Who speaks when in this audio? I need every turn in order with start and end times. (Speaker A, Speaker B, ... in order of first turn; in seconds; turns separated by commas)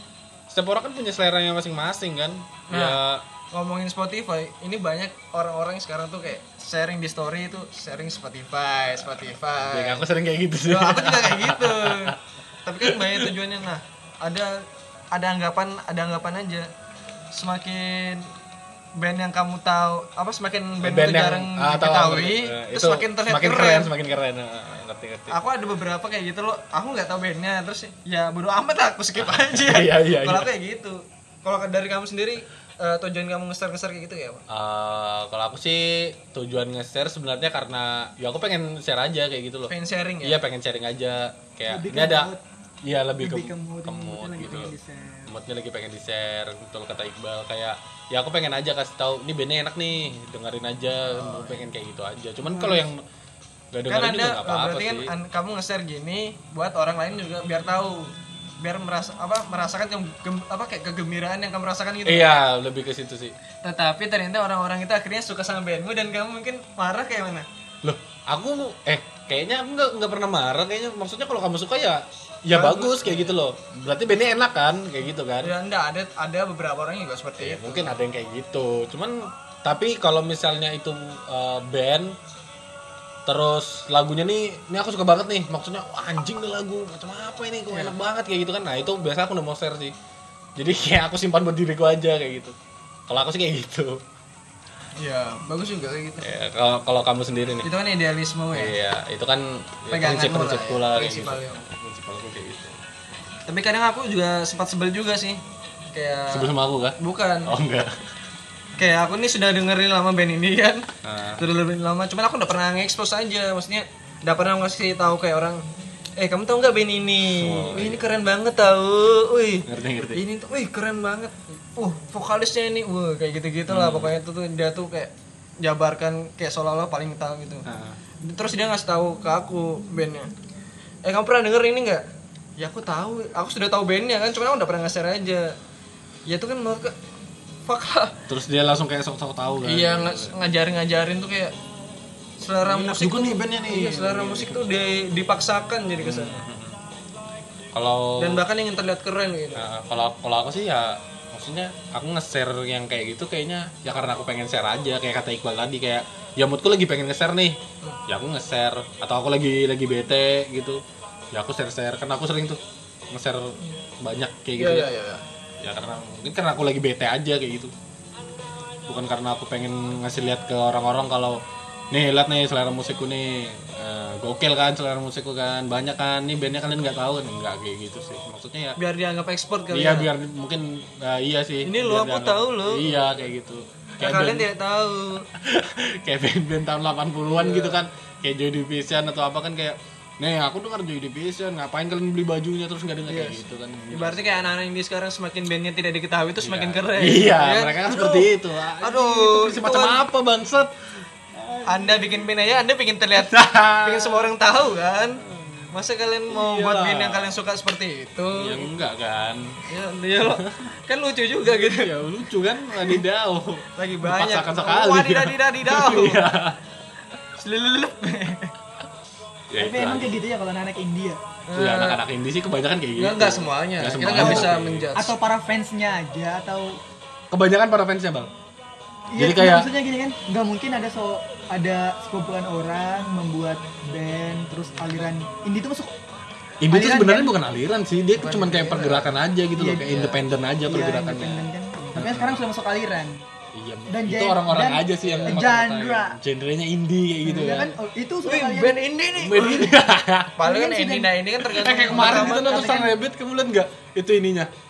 Speaker A: 0.5-3.2, Speaker B: 2.7-3.0, Speaker B: 3.5-10.1, Speaker A: 9.6-12.2, Speaker B: 10.7-16.7, Speaker A: 12.9-13.2, Speaker B: 17.3-18.3, Speaker B: 19.0-23.9, Speaker A: 20.8-25.4, Speaker B: 25.3-34.4, Speaker A: 29.2-30.5, Speaker A: 34.5-39.7, Speaker B: 39.7-40.4, Speaker A: 40.2-42.3, Speaker C: 41.7-42.4, Speaker A: 42.9-44.7, Speaker C: 43.2-45.3, Speaker A: 45.3-53.0, Speaker B: 51.1-51.6, Speaker C: 52.4-52.9, Speaker A: 53.7-55.1, Speaker B: 53.9-62.3, Speaker A: 62.1-63.4, Speaker B: 63.6-67.5, Speaker A: 67.8-75.5, Speaker B: 72.5-73.4, Speaker B: 75.4-78.0, Speaker A: 77.4-82.2, Speaker A: 83.3-89.9, Speaker A: 90.6-92.5, Speaker A: 93.1-94.0, Speaker B: 95.0-96.3, Speaker A: 96.2-97.7, Speaker B: 97.6-98.8, Speaker A: 98.5-102.8, Speaker B: 99.9-101.6, Speaker B: 103.5-105.4, Speaker B: 105.9-106.5, Speaker A: 106.3-108.0, Speaker B: 107.0-107.5, Speaker B: 108.8-110.9, Speaker A: 111.0-111.4, Speaker B: 111.4-115.6, Speaker B: 116.2-127.7, Speaker A: 117.3-118.0, Speaker A: 119.7-120.2, Speaker A: 123.7-124.1, Speaker A: 127.7-128.0, Speaker B: 128.2-130.3, Speaker B: 131.1-132.1, Speaker B: 132.6-135.6, Speaker B: 136.3-137.0, Speaker B: 137.7-138.2, Speaker A: 138.3-140.3, Speaker B: 139.6-141.6, Speaker B: 142.4-146.4, Speaker A: 142.6-144.6, Speaker A: 146.0-146.8, Speaker A: 147.7-148.4, Speaker B: 148.2-149.6, Speaker A: 149.6-160.8, Speaker A: 161.3-162.6, Speaker A: 163.1-164.9, Speaker B: 164.6-165.2, Speaker A: 165.6-167.7, Speaker A: 168.9-178.8, Speaker B: 178.8-180.1, Speaker A: 179.7-184.5, Speaker B: 181.7-183.0, Speaker B: 184.0-185.3, Speaker A: 185.3-194.3, Speaker B: 187.3-187.8, Speaker B: 193.1-200.0, Speaker A: 196.4-200.7, Speaker A: 201.3-202.3, Speaker B: 201.7-208.7, Speaker A: 203.2-204.3, Speaker A: 205.2-205.7, Speaker A: 206.3-207.3, Speaker A: 208.3-209.6, Speaker B: 209.6-212.0, Speaker A: 210.2-210.7, Speaker A: 211.4-216.6, Speaker B: 213.8-216.3, Speaker B: 217.4-218.5, Speaker A: 219.5-220.2, Speaker C: 219.6-221.2, Speaker B: 221.5-222.0, Speaker A: 221.6-224.9, Speaker B: 223.0-225.2, Speaker C: 224.0-226.8, Speaker A: 227.3-228.3, Speaker C: 229.1-236.0, Speaker A: 229.2-229.7, Speaker A: 236.6-242.4, Speaker C: 236.7-237.3, Speaker B: 238.2-239.1, Speaker C: 239.6-240.1, Speaker B: 239.9-240.2, Speaker C: 240.7-243.3, Speaker A: 243.5-247.8, Speaker C: 243.9-246.2, Speaker B: 245.0-245.4, Speaker C: 247.2-248.8, Speaker B: 248.2-249.8, Speaker A: 249.2-250.4, Speaker B: 250.4-252.9, Speaker C: 250.4-251.1, Speaker A: 251.4-254.5, Speaker C: 252.0-252.7